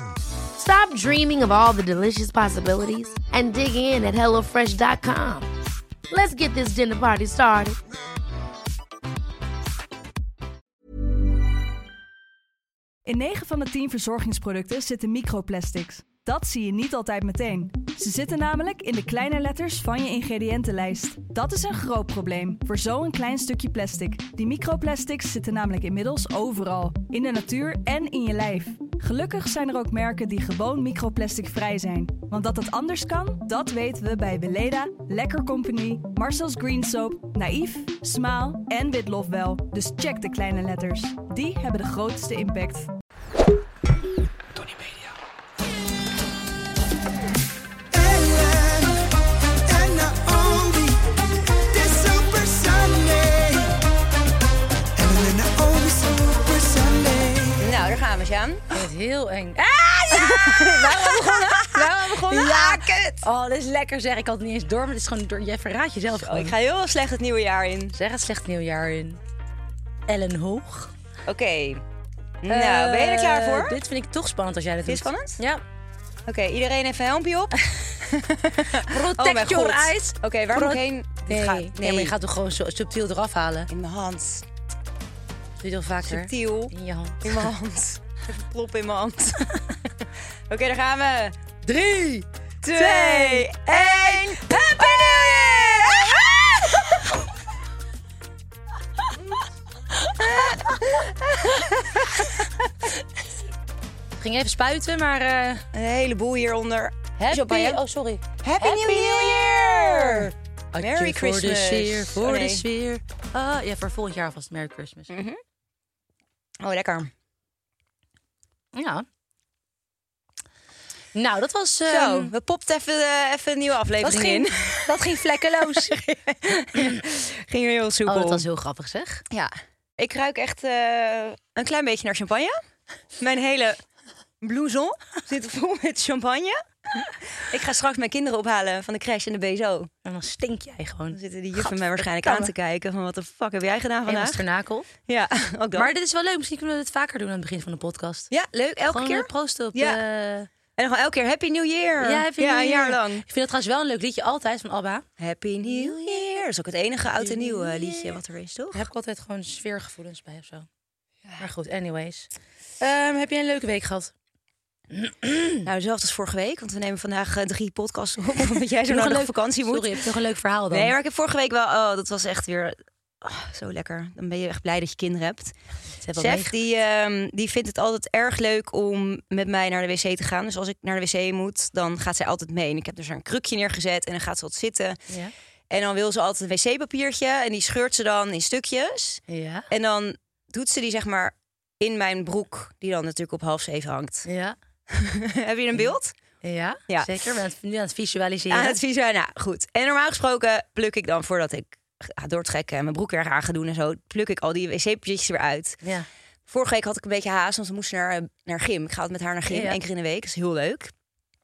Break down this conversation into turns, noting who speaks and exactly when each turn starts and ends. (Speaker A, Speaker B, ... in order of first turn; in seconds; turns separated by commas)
Speaker A: 0.6-5.5, Speaker A: 6.1-7.8, Speaker B: 13.1-42.9, Speaker C: 47.9-49.0, Speaker C: 49.7-51.0, Speaker C: 51.7-53.7, Speaker C: 55.0-57.7, Speaker D: 57.6-58.6, Speaker E: 58.7-66.5, Speaker D: 60.1-63.2, Speaker D: 66.1-68.0, Speaker E: 67.9-69.2, Speaker E: 70.1-70.9, Speaker D: 71.2-71.8, Speaker D: 72.4-73.8, Speaker E: 72.5-75.6, Speaker D: 74.8-75.4, Speaker D: 76.3-82.1, Speaker E: 77.6-77.8, Speaker E: 78.7-83.7, Speaker D: 83.7-84.4, Speaker E: 85.6-87.5, Speaker D: 86.0-89.5, Speaker D: 90.5-91.3, Speaker E: 91.6-97.0, Speaker D: 92.6-96.2, Speaker E: 100.0-100.7, Speaker D: 100.2-102.9, Speaker E: 104.2-105.6, Speaker D: 105.7-107.8, Speaker E: 107.2-115.1, Speaker D: 108.4-112.6, Speaker D: 115.1-115.4, Speaker D: 116.6-117.1, Speaker E: 118.7-119.0, Speaker E: 121.1-122.3, Speaker D: 121.9-125.0, Speaker E: 124.0-126.1, Speaker D: 125.8-128.4, Speaker E: 126.7-127.0, Speaker E: 128.1-129.2, Speaker D: 129.3-132.5, Speaker D: 133.2-133.8, Speaker D: 134.4-139.9, Speaker E: 140.0-142.5, Speaker D: 141.1-144.4, Speaker E: 144.1-144.9, Speaker D: 145.1-145.9, Speaker E: 145.7-148.3, Speaker D: 148.3-150.0, Speaker E: 148.9-150.5, Speaker D: 150.8-153.2, Speaker E: 152.0-155.0, Speaker D: 155.2-158.8, Speaker E: 155.6-156.3, Speaker E: 157.2-158.2, Speaker E: 158.7-160.7, Speaker E: 161.4-164.1, Speaker E: 164.9-165.7, Speaker D: 165.6-170.0, Speaker E: 168.9-170.9, Speaker D: 170.7-175.5, Speaker E: 176.0-176.5, Speaker D: 176.2-185.0, Speaker D: 185.7-194.3, Speaker E: 189.3-189.7, Speaker E: 194.2-194.6, Speaker D: 194.9-196.1, Speaker E: 195.7-198.8, Speaker D: 196.9-197.1, Speaker D: 198.5-205.8, Speaker E: 205.8-206.1, Speaker D: 206.5-210.9, Speaker E: 209.5-209.8